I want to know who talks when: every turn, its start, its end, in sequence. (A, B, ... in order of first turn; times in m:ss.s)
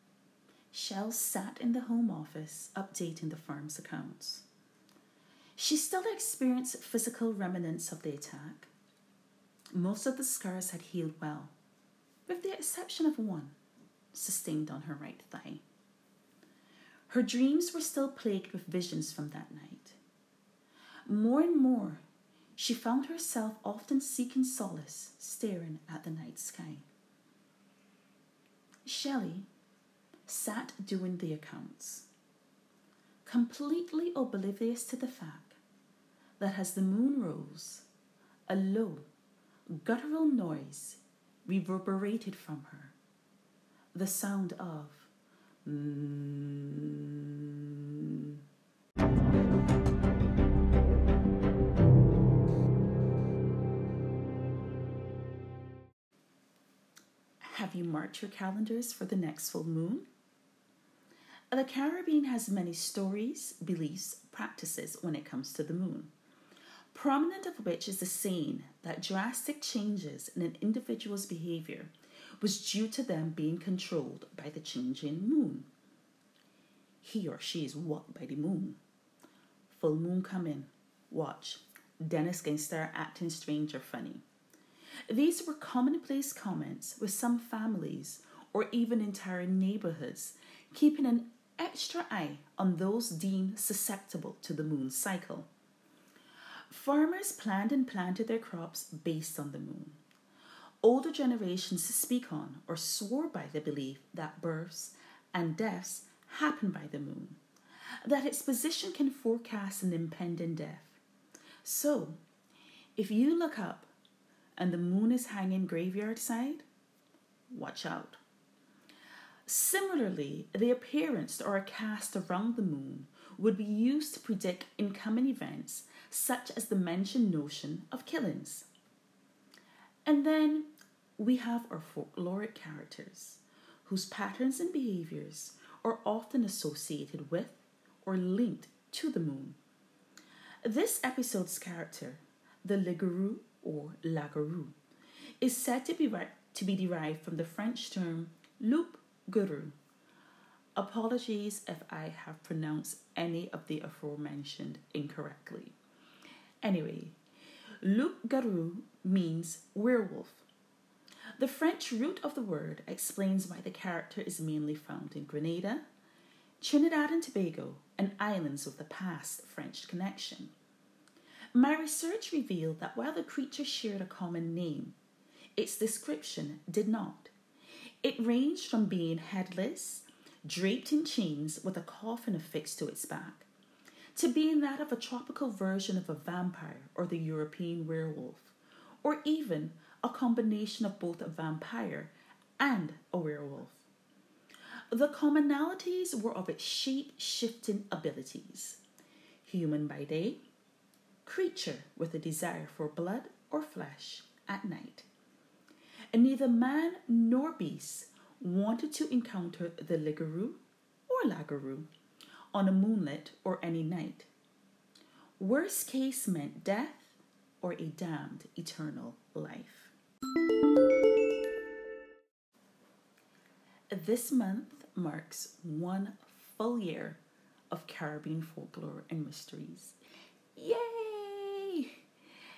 0:00.7-0:04.4 A
0:05.6-0:08.7 A
0:09.7-0:11.5 A
0:12.3-0:13.6 A
0:14.1-0:15.6 A
0:17.1-0:20.0 A
0:21.1-0:22.0 A
0:22.6-0:26.8 A
0:28.8-0:29.5 A
0:30.3-0:32.1 A
0:33.2-0:35.6 A
0:36.4-0:37.9 A
0:38.5-0:39.0 A
0:39.8-0:43.0 A
0:43.9-0:45.1 A
0:45.6-0:48.3 A
0:57.4-1:00.1 A
1:01.5-1:06.1 A
1:06.9-1:15.7 A
1:17.0-1:18.8 A
1:19.7-1:24.2 A
1:25.1-1:35.5 A
1:36.7-1:40.0 A
1:40.8-1:47.4 A
1:48.0-1:51.0 A
1:51.6-1:52.2 A
1:53.0-1:53.9 A
1:54.6-1:56.7 A
1:57.5-1:58.2 A
1:59.5-2:08.7 A
2:10.0-2:19.6 A
2:20.6-2:24.8 A
2:25.4-2:29.8 A
2:30.8-2:35.8 A
2:36.6-2:37.2 A
2:37.8-2:40.5 A
2:41.4-2:45.8 A
2:46.6-2:50.5 A
2:51.5-2:55.0 A
2:55.6-2:57.3 A
2:58.0-3:03.5 A
3:04.2-3:13.8 A
3:14.9-3:18.8 A
3:19.4-3:20.4 A
3:21.2-3:25.1 A
3:26.1-3:31.9 A
3:32.5-3:34.3 A
3:35.4-3:39.9 A
3:43.9-3:47.2 A
3:47.7-3:50.0 A
3:50.6-3:52.0 A